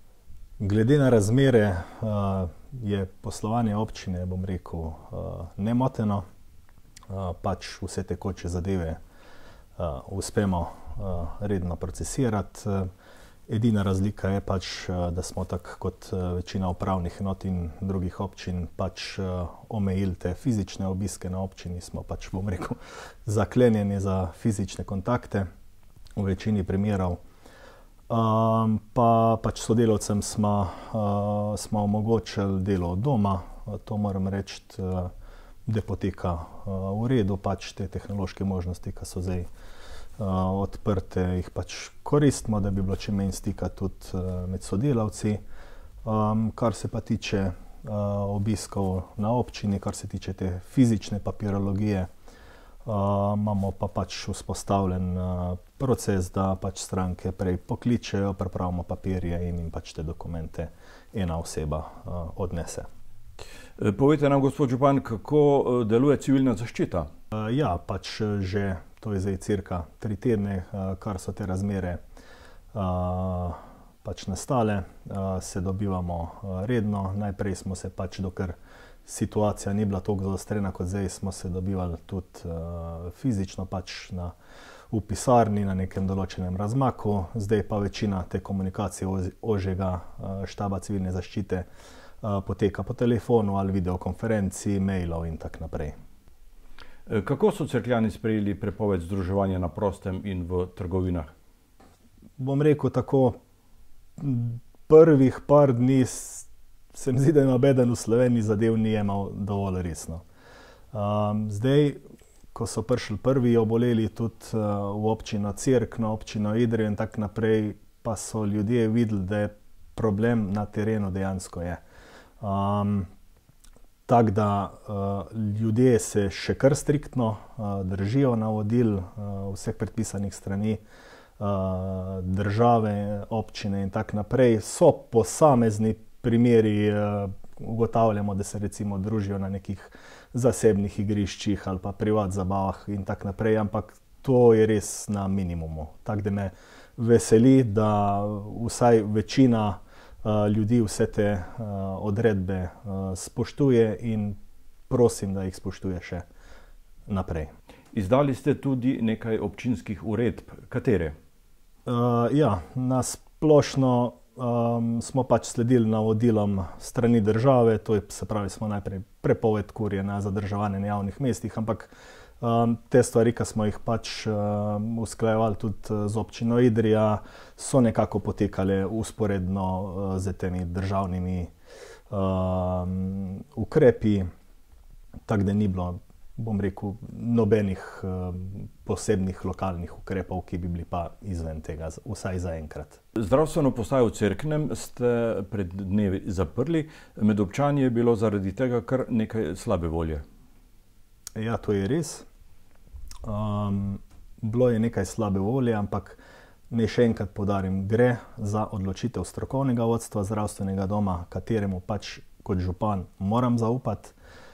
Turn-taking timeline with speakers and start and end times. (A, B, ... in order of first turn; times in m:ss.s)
0:00.6-0:06.2 A
0:07.1-0:09.0 A
0:09.8-0:12.9 A
0:13.5-0:25.5 A
0:26.2-0:27.2 A
0:28.1-0:35.1 A
0:35.6-0:39.5 A
0:40.2-0:45.4 A
0:46.0-0:52.1 A
0:52.8-1:02.9 A
1:03.8-1:07.1 B
1:07.3-1:12.0 A
1:12.7-1:24.3 A
1:24.9-1:31.7 A
1:32.2-1:35.9 A
1:37.1-1:41.3 B
1:42.4-1:43.4 A
1:44.2-1:50.2 A
1:50.9-1:52.0 A
1:52.5-2:01.8 A
2:02.4-2:03.1 A
2:04.1-2:10.8 A
2:11.4-2:34.4 A
2:34.9-2:36.2 A
2:37.1-2:37.5 A
2:37.9-2:41.1 B
2:41.8-3:01.5 A
3:02.1-3:04.3 A
3:05.3-3:13.0 A
3:13.2-3:20.2 B
3:21.4-3:22.2 A
3:23.2-3:34.2 A